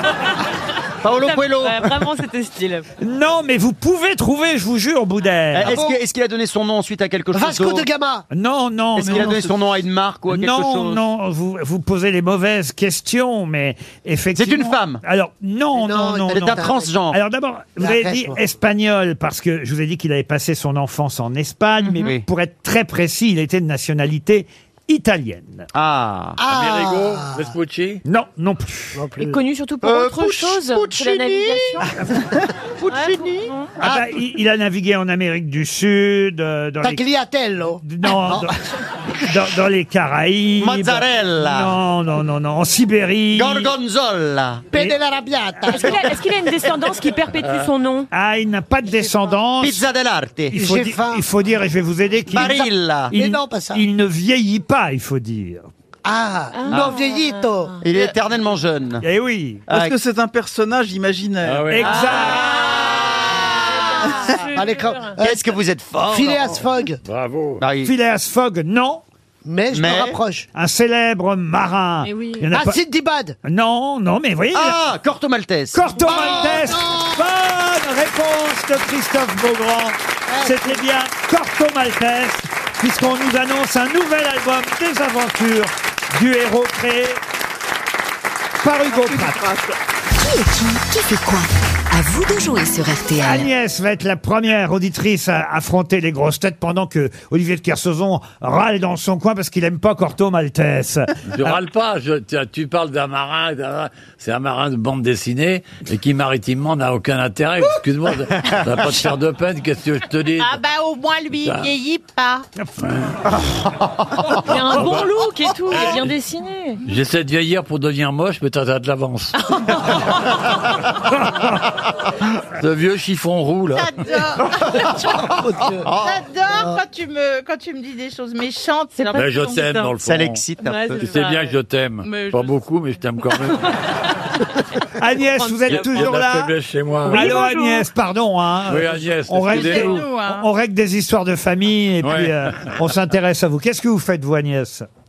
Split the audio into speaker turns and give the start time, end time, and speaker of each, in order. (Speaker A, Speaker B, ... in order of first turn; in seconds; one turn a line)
Speaker A: 1.0-2.1
Speaker B: 1.2-2.8
Speaker C: 3.0-5.8
Speaker A: 5.5-7.9
Speaker D: 5.6-6.0
Speaker D: 7.3-8.2
Speaker C: 8.3-9.4
Speaker E: 9.0-9.5
Speaker A: 9.0-11.0
Speaker C: 10.3-25.7
Speaker A: 14.3-15.0
Speaker D: 15.7-16.9
Speaker A: 16.3-17.1
Speaker D: 17.8-18.4
Speaker B: 21.8-22.1
Speaker A: 25.7-26.4
Speaker D: 26.4-27.5
Speaker F: 26.5-28.0
Speaker C: 28.0-29.0
Speaker D: 28.9-29.4
Speaker B: 29.2-31.9
Speaker A: 29.8-31.5
Speaker B: 32.9-33.8
Speaker C: 33.8-37.0
Speaker D: 33.8-34.1
Speaker D: 36.8-38.5
Speaker C: 37.8-38.6
Speaker C: 39.2-43.7
Speaker A: 40.6-41.7
Speaker A: 43.3-44.7
Speaker D: 44.7-46.1
Speaker B: 45.7-48.1
Speaker A: 45.8-46.0
Speaker C: 48.1-49.8
Speaker A: 49.6-50.5
Speaker C: 50.5-55.7
Speaker D: 50.5-51.2
Speaker A: 52.3-53.1
Speaker D: 53.1-53.8
Speaker D: 56.0-57.8
Speaker B: 56.5-57.7
Speaker A: 56.7-57.0
Speaker A: 57.8-59.0
Speaker C: 59.0-59.6
Speaker A: 59.7-59.9
Speaker E: 59.7-62.2
Speaker F: 61.4-62.1
Speaker C: 61.7-63.1
Speaker B: 61.9-65.2
Speaker D: 64.4-67.0
Speaker A: 65.2-66.7
Speaker F: 67.0-67.6
Speaker A: 67.6-67.9
Speaker C: 67.8-69.0
Speaker D: 69.4-70.5
Speaker A: 69.7-70.2
Speaker C: 70.5-72.8
Speaker B: 72.1-72.4
Speaker D: 72.5-73.4
Speaker C: 73.4-74.8
Speaker A: 74.5-76.5
Speaker C: 75.7-87.2
Speaker D: 75.9-77.3
Speaker D: 80.3-80.8
Speaker C: 88.6-89.4
Speaker E: 88.9-89.7
Speaker G: 90.2-93.5
Speaker C: 93.2-101.6
Speaker F: 101.3-110.6
Speaker H: 110.4-112.5
Speaker F: 111.4-111.7
Speaker F: 112.8-113.2
Speaker B: 114.4-116.8
Speaker F: 114.7-115.1
Speaker F: 115.7-116.1
Speaker F: 116.8-119.4
Speaker F: 122.6-123.9
Speaker H: 123.7-125.2
Speaker D: 124.8-125.9
Speaker A: 125.8-126.2
Speaker H: 126.0-129.8
Speaker D: 126.5-126.8
Speaker B: 128.9-129.9
Speaker F: 129.1-130.4
Speaker A: 130.0-131.1
Speaker B: 130.7-131.4
Speaker F: 131.0-133.7
Speaker H: 132.0-132.6
Speaker C: 135.0-136.5
Speaker B: 135.4-135.7
Speaker F: 135.7-137.4
Speaker C: 137.1-144.8
Speaker B: 137.1-137.6
Speaker F: 138.7-140.1
Speaker H: 139.5-140.4
Speaker F: 142.0-142.7